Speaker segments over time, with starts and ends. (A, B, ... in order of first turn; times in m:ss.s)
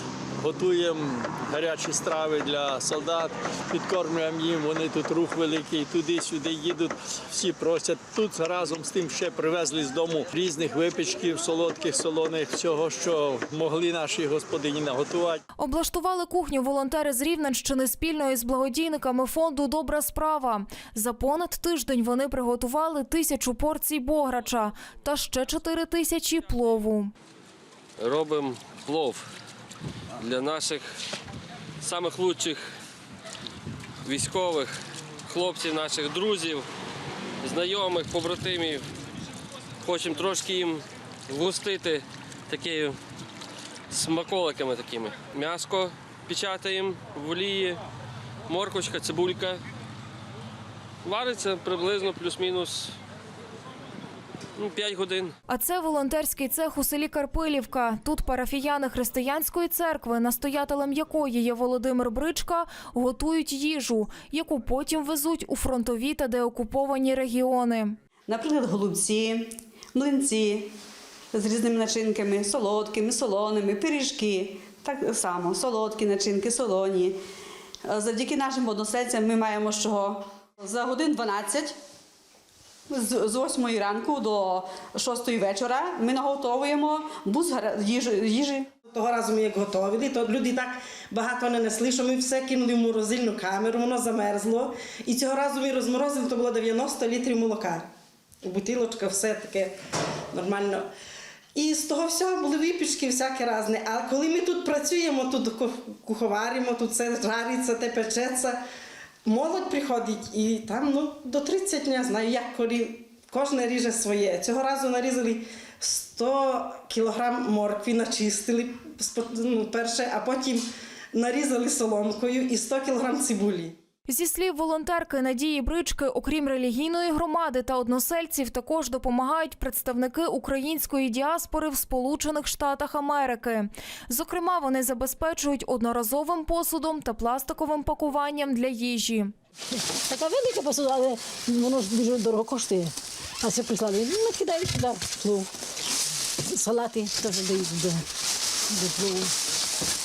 0:00.4-0:15.4 A
0:15.6-0:27.1 B
0:28.0-0:29.3 C
0:30.2-0:30.8 C
0:31.8-0:32.7 C
0:34.0-0:34.8 C
0:35.3-0:36.6 C
0:37.4-0:38.8 C
0:39.8-0:43.0 C
0:43.9-0:47.8 C
0:48.5-0:49.6 C
0:51.0-0:53.0 C
0:54.6-0:55.4 C
0:55.5-1:08.0 B
1:08.3-1:10.7 D
1:11.3-1:17.2 D
1:17.9-1:21.8 D
1:22.9-1:28.7 D
1:28.9-1:37.9 E
1:38.4-1:39.8 E
1:40.3-1:40.9 E
1:41.6-1:48.6 E
1:49.2-2:03.8 E
2:04.1-2:19.3 B
2:20.1-2:25.5 F
2:26.5-2:28.0 F
2:28.7-2:29.3 F